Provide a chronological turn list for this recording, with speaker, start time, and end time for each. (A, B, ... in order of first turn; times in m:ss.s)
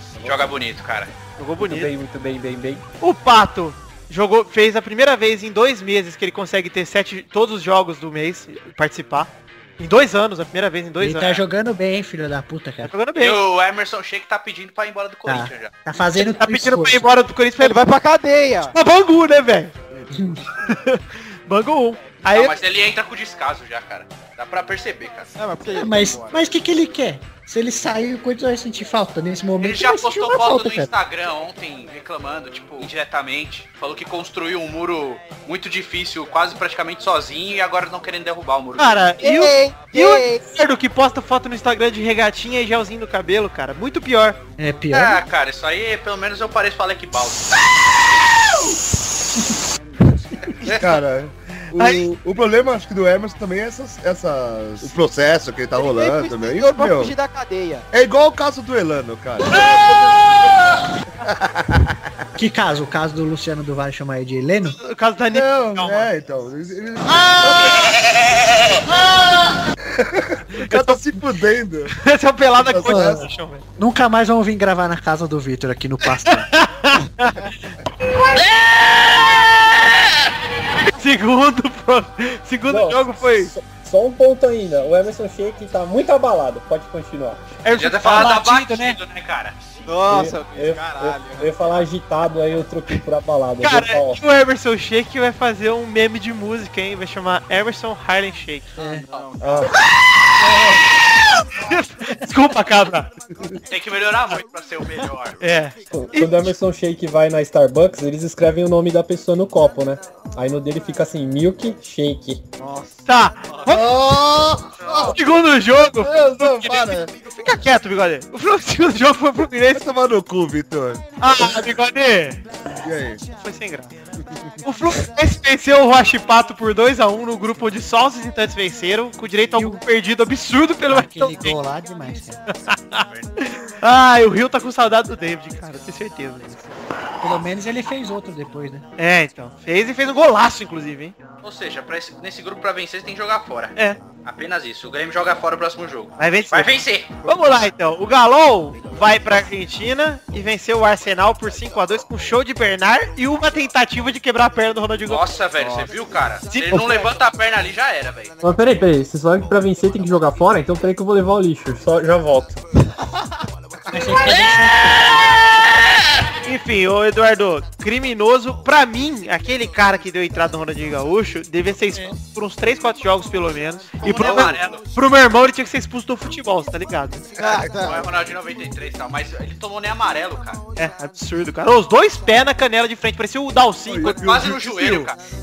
0:00.2-0:00.6 A
0:00.2-0:01.1 B
0:01.4-0:01.9 C
0:01.6-0:02.8 D
0:03.0-0:11.4 C
0:11.0-0:12.9 E
0:12.8-0:13.4 C
0:13.2-0:15.7 B
0:15.2-0:17.1 E
0:16.2-0:17.8 C
0:17.6-0:18.7 F
0:18.7-0:19.7 C
0:20.1-0:20.4 E
0:20.6-0:22.6 C
0:22.3-0:25.3 B
0:25.4-0:26.6 F
0:25.7-0:30.9 E
0:29.6-0:39.0 B
0:38.8-0:44.4 C
0:39.2-0:40.4 F
0:44.6-0:45.2 E
0:44.9-0:47.6 B
0:50.6-0:51.0 B
0:50.6-0:57.1 A
0:51.8-0:52.0 C
0:55.8-0:57.8 F
0:57.9-1:00.5 A
1:01.2-1:02.0 A
1:02.4-1:04.8 E
1:04.7-1:06.1 C
1:05.3-1:07.9 A
1:10.0-1:11.9 A
1:10.5-1:11.1 C
1:11.9-1:13.6 C
1:12.6-1:13.2 A
1:12.8-1:13.2 E
1:13.8-1:16.5 E
1:16.3-1:17.5 C
1:20.9-1:23.5 C
1:22.7-1:27.5 D
1:27.6-1:29.0 C
1:27.8-1:29.6 B
1:29.8-1:31.8 F
1:30.1-1:34.2 D
1:33.6-1:39.0 C
1:38.8-1:39.0 E
1:38.8-1:39.7 F
1:39.4-1:39.7 D
1:41.5-1:43.1 C
1:43.7-1:45.4 B
1:45.4-1:46.5 C
1:45.9-1:52.4 D
1:52.6-1:53.0 F
1:53.0-1:53.9 C
1:53.6-1:55.2 A
1:55.0-1:59.8 C
1:56.0-1:57.1 A
1:59.7-2:01.7 A
2:01.2-2:02.4 C
2:02.8-2:03.2 A
2:03.4-2:03.9 C
2:04.6-2:11.6 C
2:10.9-2:12.4 E
2:12.5-2:16.7 C
2:13.1-2:13.4 B
2:17.2-2:18.8 E
2:19.0-2:21.1 C
2:21.4-2:27.1 B
2:26.2-2:26.7 C
2:27.2-2:35.2 C
2:35.1-2:38.3 B
2:36.5-2:37.1 C
2:38.4-2:42.6 D
2:43.9-2:45.1 E
2:46.4-2:57.2 C
2:54.0-2:54.8 B
2:57.4-2:58.2 F
2:57.8-3:00.6 B
3:00.8-3:04.2 C
3:03.8-3:05.0 A
3:04.0-3:05.2 B
3:04.7-3:05.0 C